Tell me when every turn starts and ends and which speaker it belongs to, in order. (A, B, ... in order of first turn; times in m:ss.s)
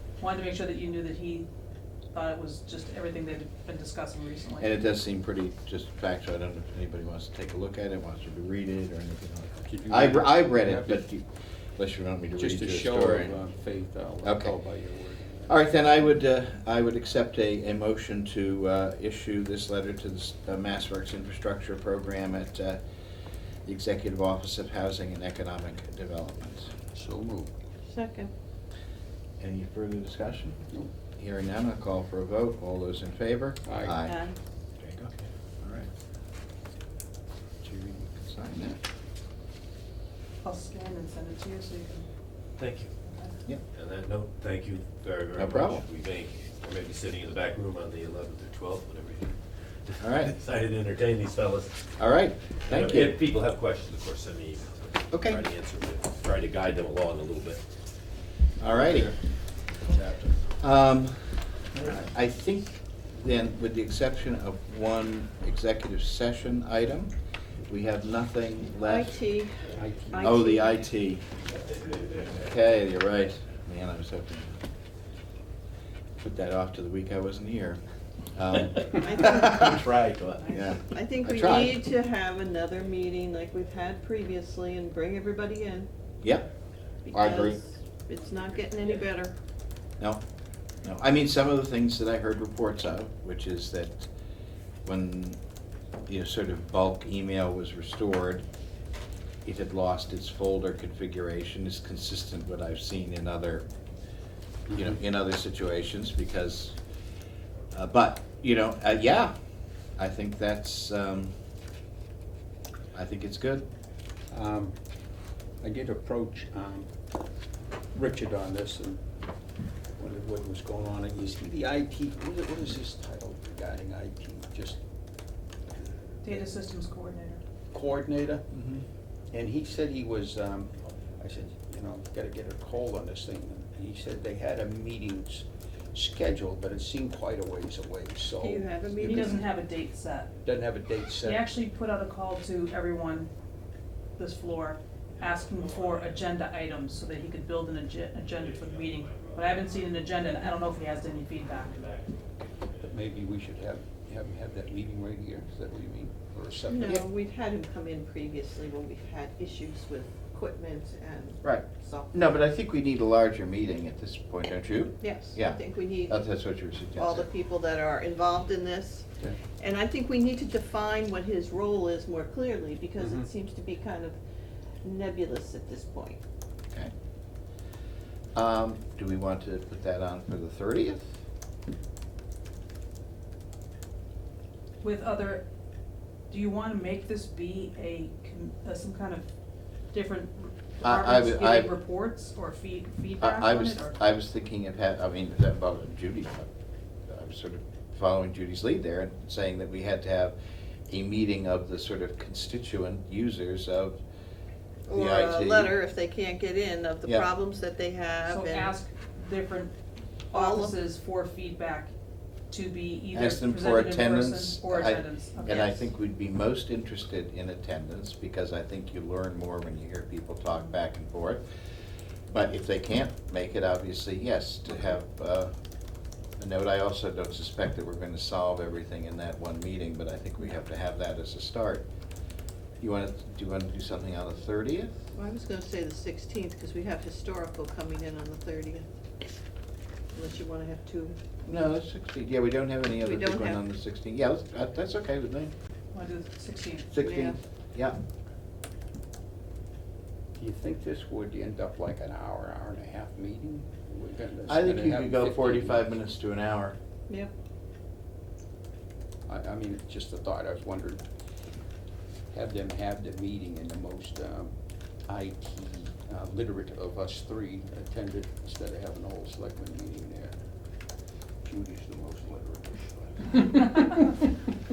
0:00.2-0:01.5 A
0:02.1-0:04.7 A
0:04.6-0:13.4 B
0:09.6-0:11.1 C
0:12.4-0:15.7 C
0:14.2-0:14.6 B
0:15.5-0:22.8 B
0:23.6-0:26.7 B
0:26.9-0:27.5 C
0:27.9-0:28.3 D
0:29.4-0:30.6 B
0:31.2-0:34.3 B
0:33.6-0:34.0 C
0:34.0-0:34.4 D
0:34.8-0:35.9 B
0:37.6-0:38.8 B
0:40.4-0:42.1 A
0:42.6-0:42.9 E
0:43.1-0:43.3 A
0:43.7-0:51.9 E
0:45.4-0:45.8 B
0:50.0-0:50.3 B
0:52.0-0:53.2 B
0:52.6-0:57.6 E
0:55.1-0:55.4 B
0:58.6-0:59.2 B
0:58.7-0:59.2 E
0:59.8-1:00.4 E
1:00.6-1:07.1 B
1:07.7-1:09.2 B
1:08.8-1:10.9 D
1:09.7-1:10.4 C
1:10.2-1:11.2 B
1:12.3-1:14.6 B
1:16.2-1:17.8 B
1:18.3-1:19.8 B
1:19.0-1:19.7 D
1:19.2-1:20.6 E
1:20.4-1:21.8 B
1:20.7-1:25.9 D
1:27.0-1:29.3 D
1:27.1-1:27.6 B
1:30.8-1:34.1 B
1:34.8-1:35.4 B
1:36.1-1:38.4 B
1:39.4-1:43.6 B
1:44.7-1:45.0 C
1:44.7-1:46.8 B
1:47.7-1:49.4 B
1:50.0-1:51.3 B
1:52.9-1:53.7 B
1:54.3-1:54.8 C
1:55.6-1:56.9 C
1:57.9-1:59.0 C
2:00.0-2:04.8 C
2:06.2-2:07.4 A
2:07.7-2:08.5 C
2:08.5-2:08.8 B
2:09.3-2:19.4 C
2:18.4-2:19.5 D
2:19.0-2:20.3 A
2:20.4-2:21.4 C
2:21.2-2:23.3 A
2:24.2-2:31.9 A
2:25.6-2:26.0 E
2:28.4-2:29.6 E
2:31.7-2:32.8 E
2:32.8-2:37.0 C
2:36.7-2:42.2 D
2:41.4-2:47.3 B
2:45.0-2:46.2 D
2:47.0-2:49.1 D
2:49.6-2:54.2 D
2:53.0-2:53.3 C
2:54.8-2:56.2 D
2:58.4-3:01.1 B
3:04.8-3:05.4 A
3:06.3-3:09.3 A
3:09.9-3:14.0 A
3:10.8-3:11.8 B
3:13.2-3:16.5 B
3:17.1-3:20.4 B
3:20.9-3:24.0 B
3:24.9-3:28.8 D
3:24.9-3:25.8 B
3:28.3-3:29.8 A
3:30.3-3:31.9 A
3:30.3-3:30.8 D
3:32.5-3:35.8 A
3:33.1-3:41.4 B
3:42.3-3:45.5 B
3:46.4-3:51.9 B
3:52.8-3:55.0 B
3:55.1-3:58.9 D
4:00.1-4:01.4 D
4:01.4-4:05.5 B
4:03.0-4:03.6 D
4:05.9-4:06.9 A
4:06.9-4:07.4 D
4:06.9-4:08.0 B
4:10.4-4:16.0 C
4:14.5-4:16.8 B
4:19.3-4:21.0 C
4:22.3-4:24.5 C
4:25.1-4:30.4 C
4:31.4-4:33.8 C